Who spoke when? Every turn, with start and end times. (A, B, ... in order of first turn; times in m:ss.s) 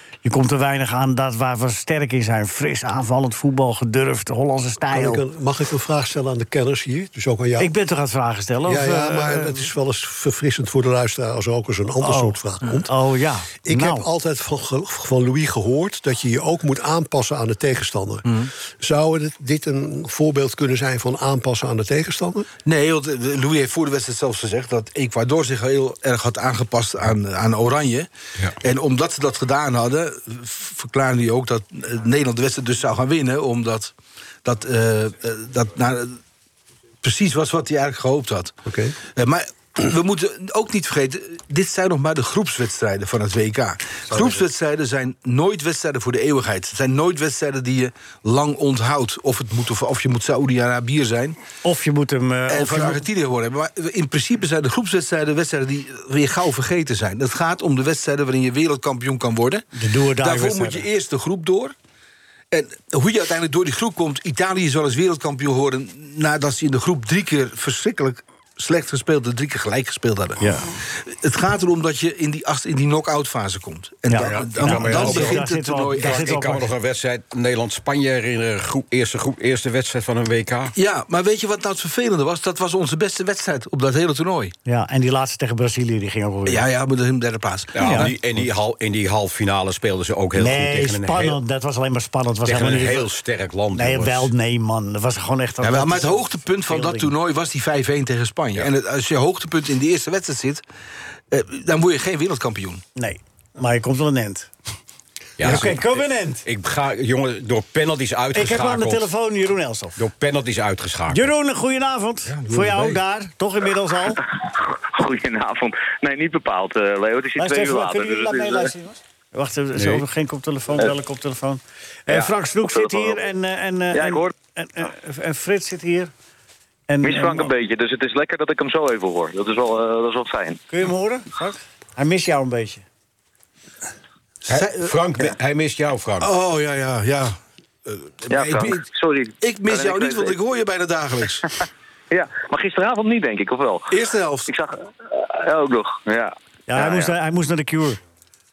0:00.2-0:05.2 A
0:04.9-0:07.7 B
0:07.6-0:09.7 A
0:08.6-0:12.9 B
0:12.0-0:14.1 A
0:13.6-0:22.5 B
0:22.7-0:36.2 C
0:37.0-0:38.6 C
0:38.7-0:39.0 B
0:39.2-0:51.4 C
0:51.6-0:53.0 A
0:52.5-0:59.7 C
0:59.7-1:00.8 A
1:00.2-1:01.7 C
1:02.5-1:16.3 C
1:10.4-1:10.7 A
1:14.1-1:16.7 A
1:14.2-1:20.7 D
1:20.8-1:24.5 C
1:24.7-1:26.6 A
1:26.5-1:28.1 C
1:27.7-1:31.4 D
1:27.8-1:28.1 A
1:30.4-1:33.1 A
1:32.4-1:34.3 D
1:33.7-1:37.1 A
1:35.6-1:40.6 C
1:41.3-1:42.8 C
1:43.0-1:44.5 A
1:45.4-1:45.8 D
1:45.4-1:45.7 C
1:45.4-1:46.4 A
1:46.4-1:49.1 D
1:48.3-1:50.0 A
1:50.0-1:51.3 D
1:51.1-1:54.2 A
1:52.3-1:53.0 C
1:54.6-1:58.7 E
1:57.4-2:06.1 A
1:59.8-2:00.0 D
2:02.1-2:03.2 E
2:03.9-2:04.3 E
2:06.9-2:07.5 A
2:07.0-2:10.6 E
2:10.7-2:12.8 A
2:14.5-2:15.0 C
2:14.5-2:16.3 D
2:16.2-2:17.4 C
2:17.9-2:18.8 C
2:18.3-2:20.4 E
2:19.4-2:21.5 C
2:22.1-2:24.0 E
2:23.9-2:24.5 C
2:24.5-2:27.2 E
2:26.7-2:28.0 A